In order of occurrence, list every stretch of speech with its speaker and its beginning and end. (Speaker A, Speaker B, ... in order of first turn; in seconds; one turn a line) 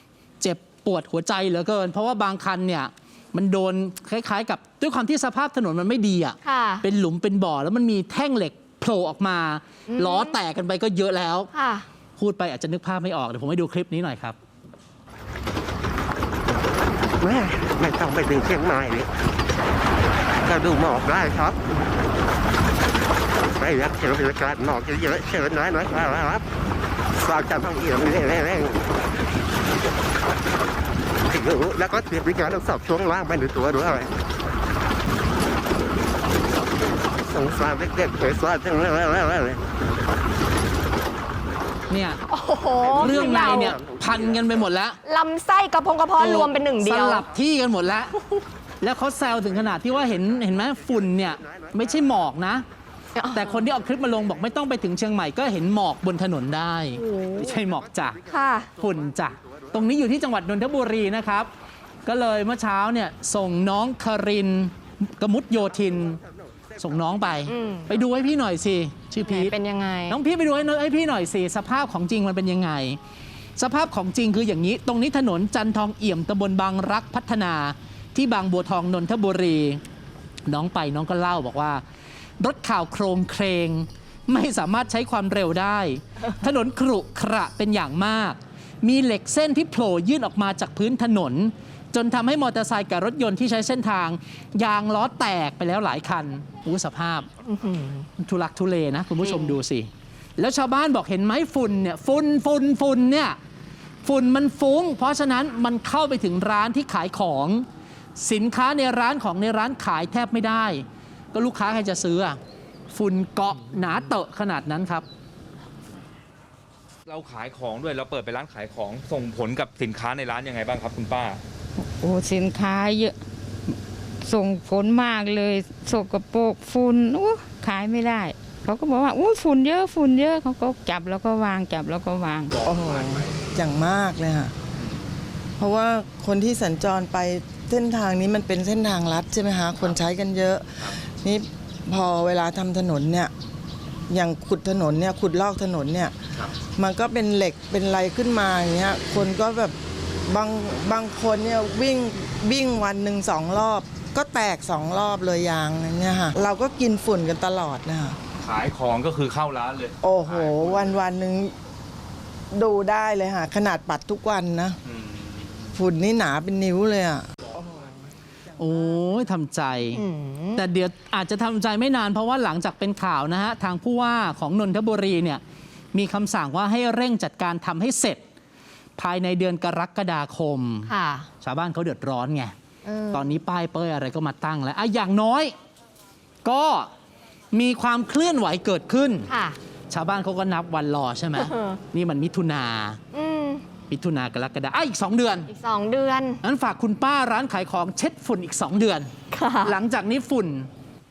Speaker A: 0.4-11.5
Speaker B: 6.4-6.8
Speaker B: 9.9-10.4
Speaker B: 11.5-11.9
Speaker A: 12.2-14.4
Speaker C: 17.2-19.1
Speaker C: 20.5-21.6
Speaker C: 23.6-26.4
Speaker C: 27.2-28.8
Speaker C: 31.3-34.1
Speaker C: 37.4-39.5
Speaker A: 41.9-42.2
Speaker B: 42.3-43.8
Speaker A: 42.9-45.0
Speaker B: 45.0-47.3
Speaker A: 46.2-52.6
Speaker B: 53.2-53.6
Speaker A: 53.3-58.2
Speaker B: 57.0-57.5
Speaker B: 58.3-58.7
Speaker A: 58.8-61.5
Speaker A: 62.1-66.2
Speaker A: 66.8-69.5
Speaker B: 67.5-67.9
Speaker B: 69.2-70.2
Speaker A: 70.1-73.0
Speaker A: 73.6-79.8
Speaker A: 80.5-81.8
Speaker A: 82.4-97.3
Speaker B: 97.4-98.1
Speaker A: 98.2-103.4
Speaker B: 99.2-99.5
Speaker A: 104.0-107.7
Speaker A: 108.2-112.4
Speaker A: 112.9-115.1
Speaker D: 117.1-121.4
Speaker E: 121.8-123.2
Speaker E: 124.2-132.6
Speaker F: 132.6-134.5
Speaker F: 135.6-143.3
Speaker F: 144.1-158.2
Speaker D: 158.4-160.9
Speaker F: 160.0-161.5
Speaker F: 162.5-164.8
Speaker D: 165.0-165.5
Speaker F: 165.7-167.6
Speaker A: 168.6-170.0
Speaker B: 169.9-170.6
Speaker A: 170.6-175.4
Speaker A: 175.9-178.2
Speaker A: 179.0-182.6
Speaker B: 180.9-181.3
Speaker B: 182.8-183.3
Speaker A: 183.1-185.6
Speaker A: 186.4-186.9
Speaker A: 187.5-189.3
Speaker B: 189.3-189.6
Speaker A: 189.9-193.0
Speaker B: 191.4-191.8
Speaker B: 193.1-193.7
Speaker A: 193.9-195.5
Speaker B: 195.5-196.4
Speaker A: 196.4-199.1
Speaker B: 199.3-199.8
Speaker A: 199.6-200.7